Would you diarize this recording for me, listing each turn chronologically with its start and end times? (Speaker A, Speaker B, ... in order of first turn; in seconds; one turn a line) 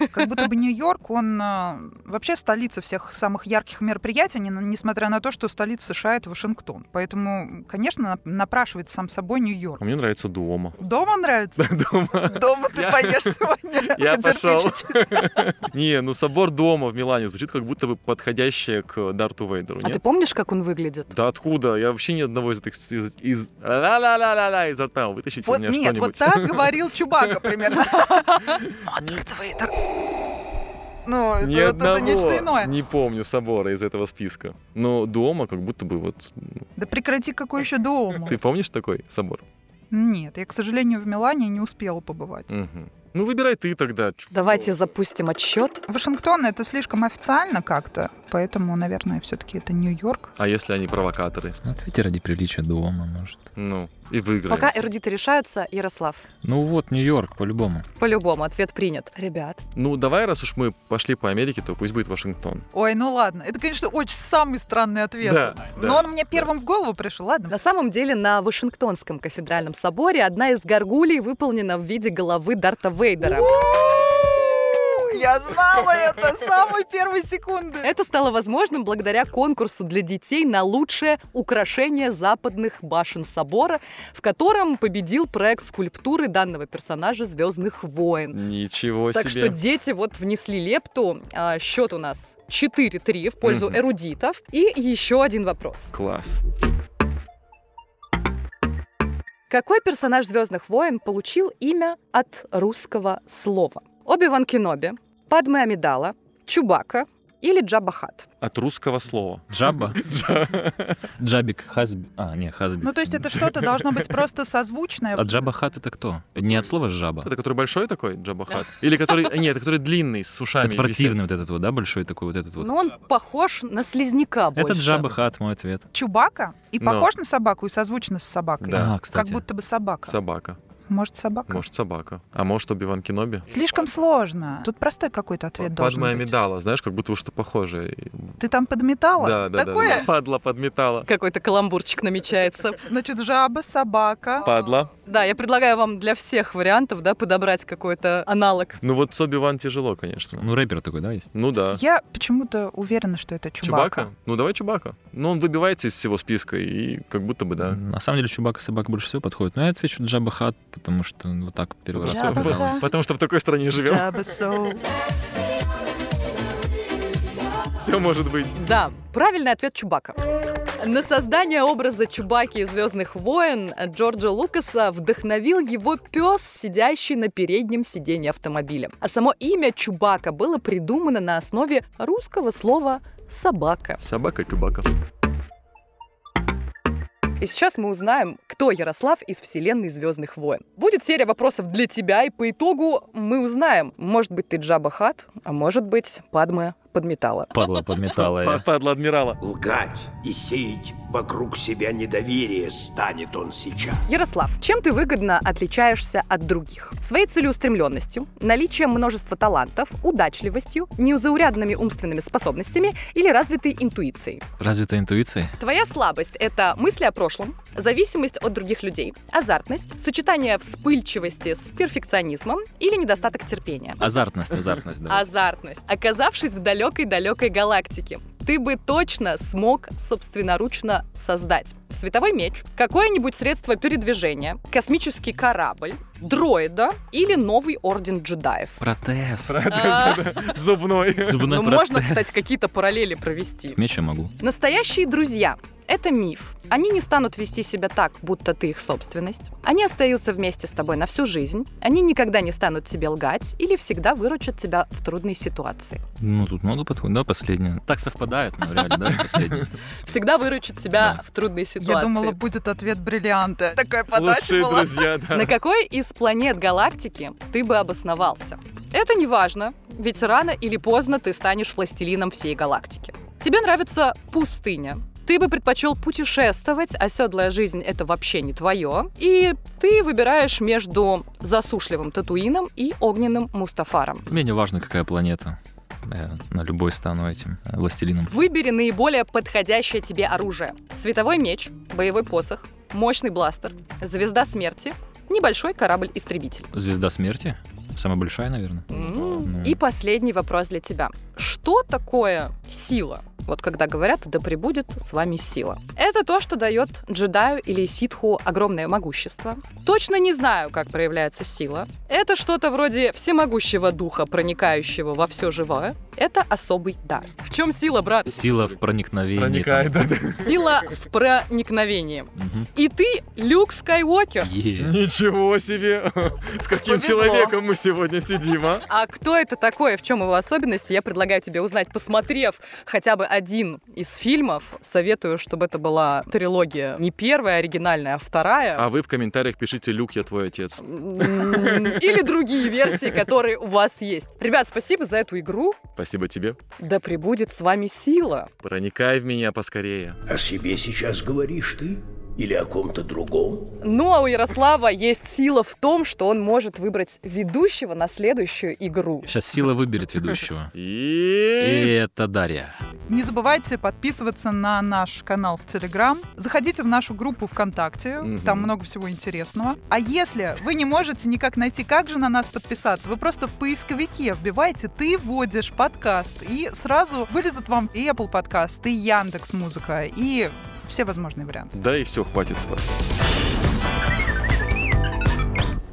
Speaker A: 0.1-9.8
Speaker B: 9.8-10.8
Speaker A: 10.8-11.6
Speaker B: 11.6-20.0
Speaker A: 12.3-15.4
Speaker C: 19.8-21.1
Speaker B: 21.1-27.5
Speaker A: 25.4-29.8
Speaker A: 31.1-32.7
Speaker B: 31.4-36.6
Speaker A: 36.8-38.4
Speaker B: 38.2-39.5
Speaker A: 39.9-42.5
Speaker B: 42.5-44.5
Speaker C: 44.3-45.8
Speaker A: 45.9-50.3
Speaker B: 50.4-51.6
Speaker D: 51.6-53.4
Speaker B: 53.5-54.7
Speaker C: 54.5-56.2
Speaker D: 56.4-57.9
Speaker C: 58.0-59.6
Speaker B: 59.8-62.6
Speaker A: 62.7-67.5
Speaker B: 65.2-66.5
Speaker C: 67.5-73.5
Speaker A: 73.2-77.9
Speaker C: 77.8-88.4
Speaker B: 88.3-89.6
Speaker C: 89.1-95.9
Speaker B: 93.4-93.8
Speaker B: 95.9-96.5
Speaker C: 99.5-108.3
Speaker B: 108.4-111.0
Speaker D: 109.5-110.0
Speaker D: 111.2-113.5
Speaker A: 112.8-115.5
Speaker B: 113.5-114.0
Speaker D: 115.1-117.3
Speaker B: 117.2-121.2
Speaker D: 120.6-122.7
Speaker C: 122.6-125.1
Speaker D: 124.5-125.8
Speaker A: 125.9-130.2
Speaker B: 126.8-127.1
Speaker B: 128.6-129.0
Speaker D: 128.7-129.4
Speaker B: 130.1-130.6
Speaker A: 130.9-131.6
Speaker B: 131.5-133.5
Speaker A: 133.5-136.3
Speaker B: 135.6-138.3
Speaker A: 138.4-140.1
Speaker B: 139.2-141.1
Speaker C: 141.1-142.8
Speaker A: 142.9-144.5
Speaker B: 144.4-144.9
Speaker C: 145.1-148.8
Speaker B: 148.8-150.5
Speaker D: 150.3-151.3
Speaker B: 151.3-151.8
Speaker A: 151.7-154.1
Speaker B: 153.6-157.8
Speaker D: 157.6-162.9
Speaker B: 161.9-164.2
Speaker A: 162.1-162.8
Speaker A: 163.8-164.8
Speaker B: 167.8-168.8
Speaker C: 168.6-170.2
Speaker C: 170.8-184.0
Speaker B: 184.0-184.9
Speaker C: 187.4-197.5
Speaker D: 197.5-198.6
Speaker B: 198.2-199.4
Speaker E: 199.4-204.0
Speaker C: 204.1-214.4
Speaker D: 214.6-215.5
Speaker C: 215.6-224.1
Speaker D: 224.0-225.3
Speaker C: 225.1-238.8
Speaker D: 238.8-239.6
Speaker B: 239.4-241.5
Speaker C: 239.7-240.4
Speaker D: 241.2-242.4
Speaker C: 241.5-243.8
Speaker D: 243.8-244.3
Speaker C: 244.4-256.0
Speaker D: 256.2-259.7
Speaker C: 258.8-259.4
Speaker C: 260.0-262.4
Speaker D: 260.9-261.2
Speaker A: 261.8-265.1
Speaker B: 264.1-265.5
Speaker C: 265.3-284.3
Speaker D: 284.3-288.3
Speaker C: 288.3-296.7
Speaker D: 296.7-299.8
Speaker B: 298.9-299.5
Speaker C: 298.9-318.4
Speaker D: 318.3-320.1
Speaker B: 319.3-320.9
Speaker C: 320.4-324.5
Speaker D: 322.4-322.7
Speaker D: 324.4-325.0
Speaker B: 324.8-328.9
Speaker A: 326.9-327.6
Speaker C: 328.9-338.9
Speaker B: 338.8-342.0
Speaker C: 340.8-345.8
Speaker B: 346.0-346.6
Speaker C: 346.8-348.5
Speaker B: 348.6-350.2
Speaker E: 350.3-353.7
Speaker C: 353.8-359.3
Speaker D: 359.2-360.7
Speaker B: 360.7-361.9
Speaker D: 361.6-362.8
Speaker A: 363.1-381.7
Speaker B: 368.2-368.7
Speaker B: 381.7-383.0